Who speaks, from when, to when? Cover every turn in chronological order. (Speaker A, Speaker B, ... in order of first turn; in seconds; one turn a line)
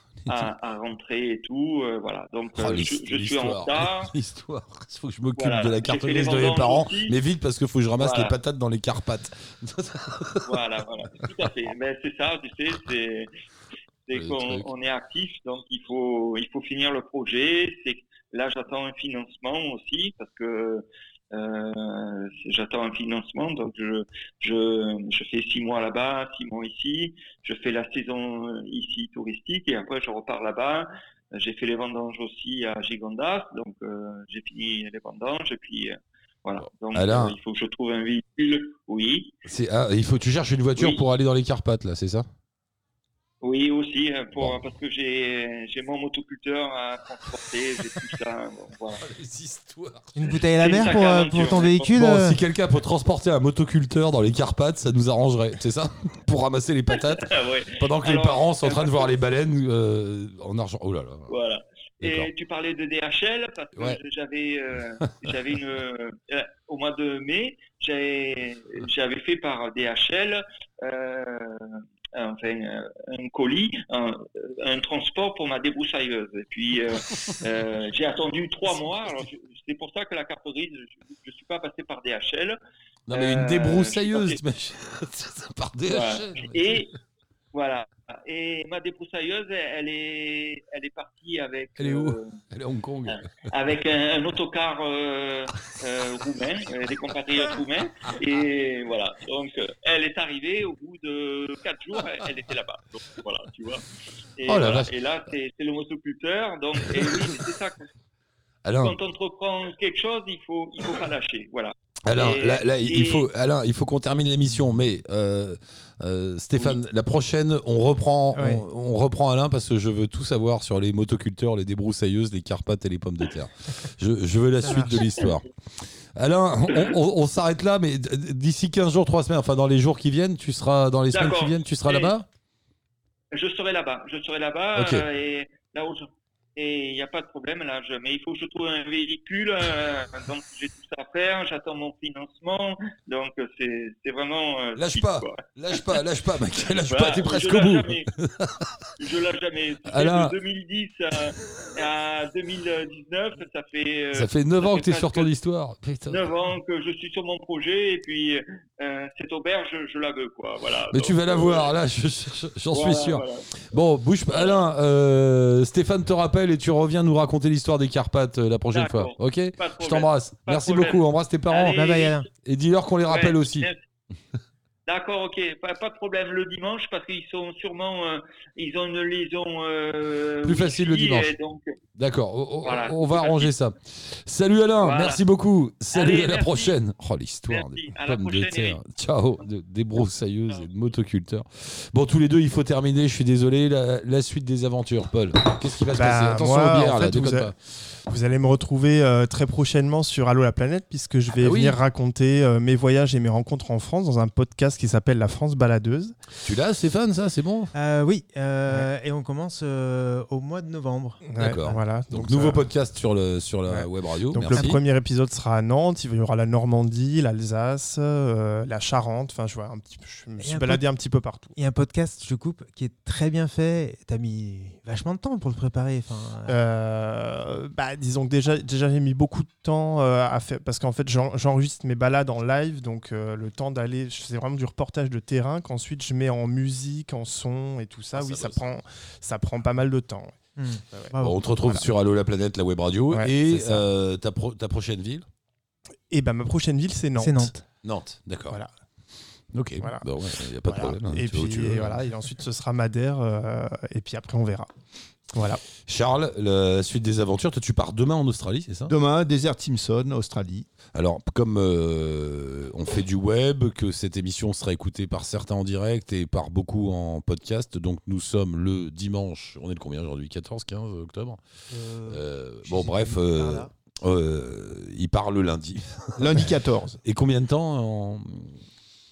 Speaker A: 0.2-0.5
Speaker B: 0.3-4.1
Speaker A: 2.5-11.3
Speaker B: 5.3-7.2
Speaker B: 8.0-8.3
Speaker B: 10.4-13.3
Speaker B: 14.1-39.3
Speaker A: 14.1-14.7
Speaker A: 36.6-37.4
Speaker A: 39.4-42.3
Speaker B: 40.8-41.0
Speaker B: 43.4-49.0
Speaker A: 49.0-51.0
Speaker C: 50.1-52.4
Speaker B: 50.6-51.9
Speaker A: 51.9-61.3
Speaker B: 56.9-59.1
Speaker B: 61.3-82.6
Speaker A: 62.0-62.3
Speaker A: 64.8-65.6
Speaker A: 76.9-77.4
Speaker A: 78.7-79.2
Speaker A: 83.1-86.9
Speaker B: 83.1-84.4
Speaker B: 85.8-86.9
Speaker B: 87.5-92.4
Speaker A: 91.8-93.5
Speaker B: 93.0-103.8
Speaker A: 97.5-98.5
Speaker A: 102.0-102.3
Speaker B: 104.4-107.8
Speaker A: 104.4-104.9
Speaker A: 106.9-107.4
Speaker A: 108.6-109.0
Speaker B: 108.8-113.3
Speaker A: 112.0-132.2
Speaker C: 118.3-118.6
Speaker C: 124.6-125.3
Speaker B: 131.1-132.1
Speaker B: 133.3-146.0
Speaker A: 134.8-135.0
Speaker A: 144.8-148.9
Speaker B: 146.8-148.1
Speaker B: 149.0-155.3
Speaker A: 149.8-150.3
Speaker A: 154.1-156.3
Speaker B: 156.1-161.7
Speaker A: 160.9-173.7
Speaker B: 162.7-163.4
Speaker B: 164.3-164.6
Speaker B: 168.7-172.2
Speaker C: 171.7-172.2
Speaker B: 173.1-173.8
Speaker B: 174.9-181.7
Speaker A: 180.4-181.3
Speaker A: 181.9-197.5
Speaker B: 182.6-183.5
Speaker B: 184.8-185.2
Speaker B: 185.9-186.7
Speaker B: 187.5-188.8
Speaker D: 195.9-197.5
Speaker D: 198.1-206.1
Speaker A: 201.3-201.8
Speaker A: 206.4-207.7
Speaker C: 207.7-211.8
Speaker D: 211.2-212.7
Speaker A: 211.3-214.8
Speaker D: 213.7-221.5
Speaker C: 220.4-220.8
Speaker C: 221.6-226.6
Speaker D: 226.5-241.9
Speaker A: 238.1-238.6
Speaker C: 240.6-241.4
Speaker A: 241.2-245.2
Speaker D: 243.1-243.8
Speaker D: 246.1-247.6
Speaker C: 247.2-247.6
Speaker A: 247.8-248.6
Speaker A: 249.5-252.0
Speaker D: 250.7-254.7
Speaker D: 255.3-255.6
Speaker A: 255.9-258.9
Speaker E: 258.9-260.7
Speaker A: 260.9-271.4
Speaker C: 271.7-273.7
Speaker A: 272.0-276.4
Speaker E: 276.2-277.0
Speaker A: 277.0-278.6